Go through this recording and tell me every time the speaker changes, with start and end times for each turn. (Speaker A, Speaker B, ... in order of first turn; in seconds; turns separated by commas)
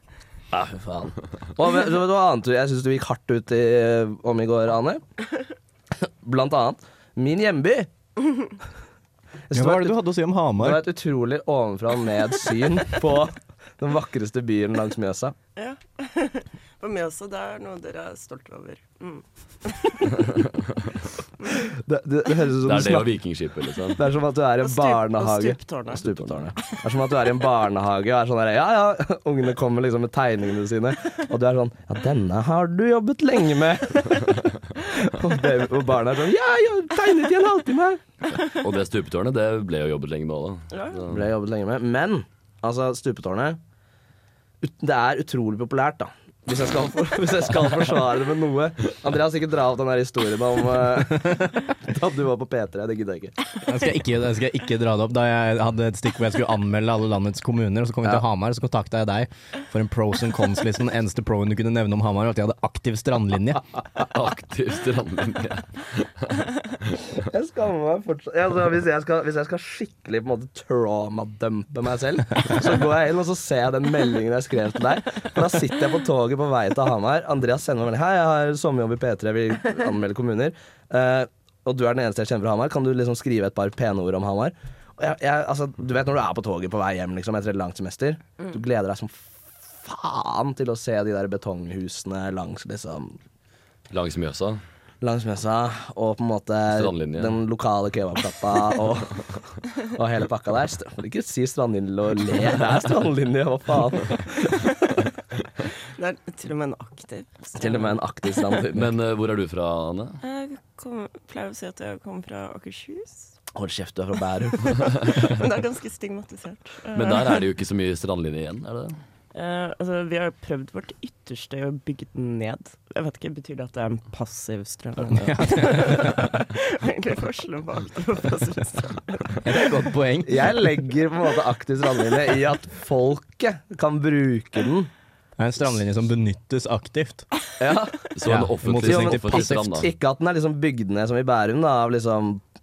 Speaker A: 0.5-5.0, Speaker A: 6.0-7.9, Speaker A: 9.5-10.0, Speaker B: 9.5-10.8, Speaker A: 10.6-15.4, Speaker C: 15.6-20.3, Speaker A: 21.5-23.1, Speaker D: 22.6-24.0, Speaker A: 24.0-38.0, Speaker C: 24.6-26.8, Speaker D: 38.3-41.3, Speaker C: 40.7-41.0, Speaker A: 41.1-43.6, Speaker A: 44.6-53.3, Speaker B: 53.6-63.6, Speaker D: 64.1-66.5, Speaker A: 67.2-93.2, Speaker D: 93.9-94.6, Speaker A: 95.0-104.7, Speaker D: 96.7-97.4, Speaker C: 106.0-108.5, Speaker A: 107.6-108.9, Speaker D: 108.7-110.2, Speaker C: 110.2-113.3, Speaker A: 113.5-114.9, Speaker C: 114.9-117.4, Speaker D: 117.0-119.0, Speaker C: 119.3-129.4, Speaker B: 125.0-126.3, Speaker B: 129.4-130.5, Speaker A: 130.3-134.9, Speaker B: 135.4-137.3, Speaker A: 137.6-138.0, Speaker D: 138.2-139.9, Speaker B: 138.3-139.8, Speaker A: 138.8-142.4